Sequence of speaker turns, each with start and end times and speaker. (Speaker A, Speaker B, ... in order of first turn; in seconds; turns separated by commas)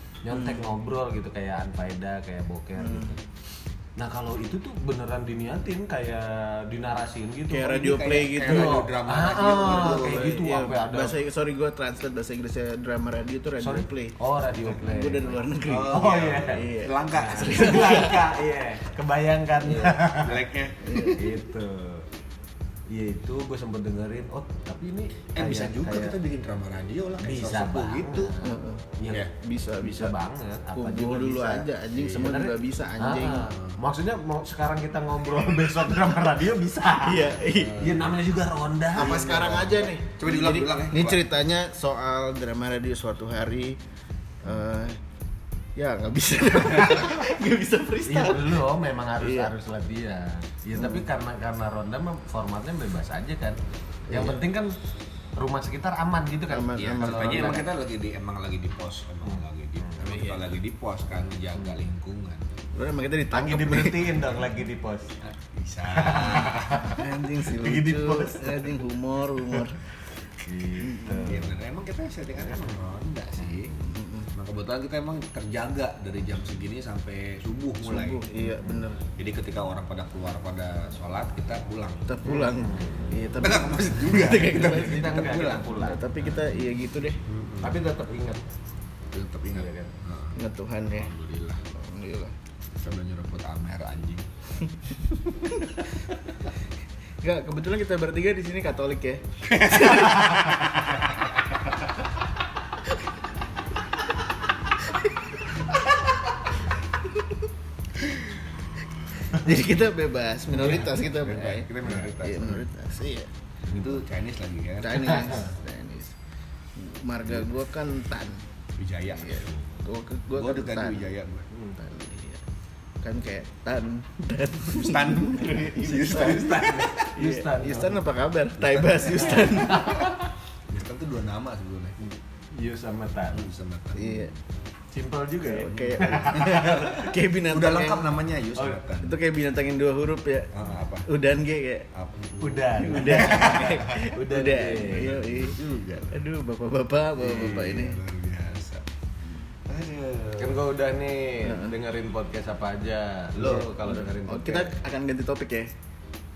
Speaker A: 0.2-3.2, Speaker B: 0.3-0.6, Speaker B: 2.8-3.1, Speaker A: 4.0-11.2, Speaker B: 7.5-8.9, Speaker C: 7.7-10.4, Speaker B: 9.5-14.2, Speaker A: 13.6-20.4, Speaker B: 14.7-18.3, Speaker C: 15.7-17.9, Speaker C: 19.6-21.1, Speaker B: 20.8-21.2, Speaker A: 21.0-22.1, Speaker A: 22.9-26.2, Speaker C: 25.3-28.3, Speaker A: 27.2-39.8, Speaker B: 28.4-30.1, Speaker B: 30.7-33.5, Speaker B: 37.0-37.9, Speaker C: 37.5-38.1, Speaker B: 38.9-43.8, Speaker C: 39.2-41.2, Speaker B: 44.4-45.0, Speaker B: 45.8-48.6, Speaker A: 48.0-54.8, Speaker B: 49.2-49.5, Speaker B: 50.8-51.0, Speaker B: 54.1-54.4, Speaker A: 55.4-57.7, Speaker B: 56.5-57.6, Speaker C: 56.7-62.5, Speaker A: 59.3-60.0, Speaker B: 60.0-60.4, Speaker B: 62.7-64.2, Speaker A: 63.3-65.2, Speaker C: 65.2-67.0, Speaker A: 65.9-68.7, Speaker B: 66.9-69.8, Speaker A: 70.4-71.5, Speaker B: 70.8-71.4, Speaker C: 71.2-73.8, Speaker B: 73.7-74.3, Speaker C: 74.3-78.2, Speaker B: 77.8-79.0, Speaker A: 78.4-78.8, Speaker C: 79.2-82.1, Speaker B: 82.1-87.2, Speaker A: 82.2-83.1, Speaker C: 83.4-85.8, Speaker A: 84.5-86.1, Speaker A: 87.3-88.4, Speaker C: 87.5-87.8, Speaker C: 89.1-90.4, Speaker A: 89.5-89.9, Speaker B: 90.3-91.1, Speaker C: 90.9-91.6, Speaker B: 91.7-92.3, Speaker C: 92.8-94.3, Speaker B: 94.6-95.8, Speaker B: 97.2-100.9, Speaker B: 109.3-113.3, Speaker C: 111.0-112.6, Speaker C: 113.7-115.4, Speaker B: 114.8-116.1, Speaker B: 116.8-118.4, Speaker C: 118.8-119.5, Speaker B: 119.1-121.1, Speaker C: 120.3-121.5, Speaker B: 121.7-122.4, Speaker B: 123.0-130.1, Speaker C: 124.7-127.1, Speaker A: 126.1-128.0, Speaker C: 128.6-129.8, Speaker A: 129.2-130.3, Speaker C: 130.7-132.0, Speaker A: 132.5-133.5, Speaker C: 133.3-134.3, Speaker B: 133.9-134.3, Speaker A: 134.9-137.1, Speaker B: 135.4-138.1, Speaker C: 135.7-139.2, Speaker B: 139.0-140.5, Speaker C: 140.5-141.1, Speaker B: 141.1-141.9, Speaker C: 141.9-144.1, Speaker A: 142.4-145.2, Speaker B: 142.8-148.0, Speaker C: 144.9-146.2, Speaker C: 147.2-148.8, Speaker C: 149.7-150.7, Speaker A: 150.4-154.7, Speaker B: 151.4-151.7, Speaker B: 153.4-155.7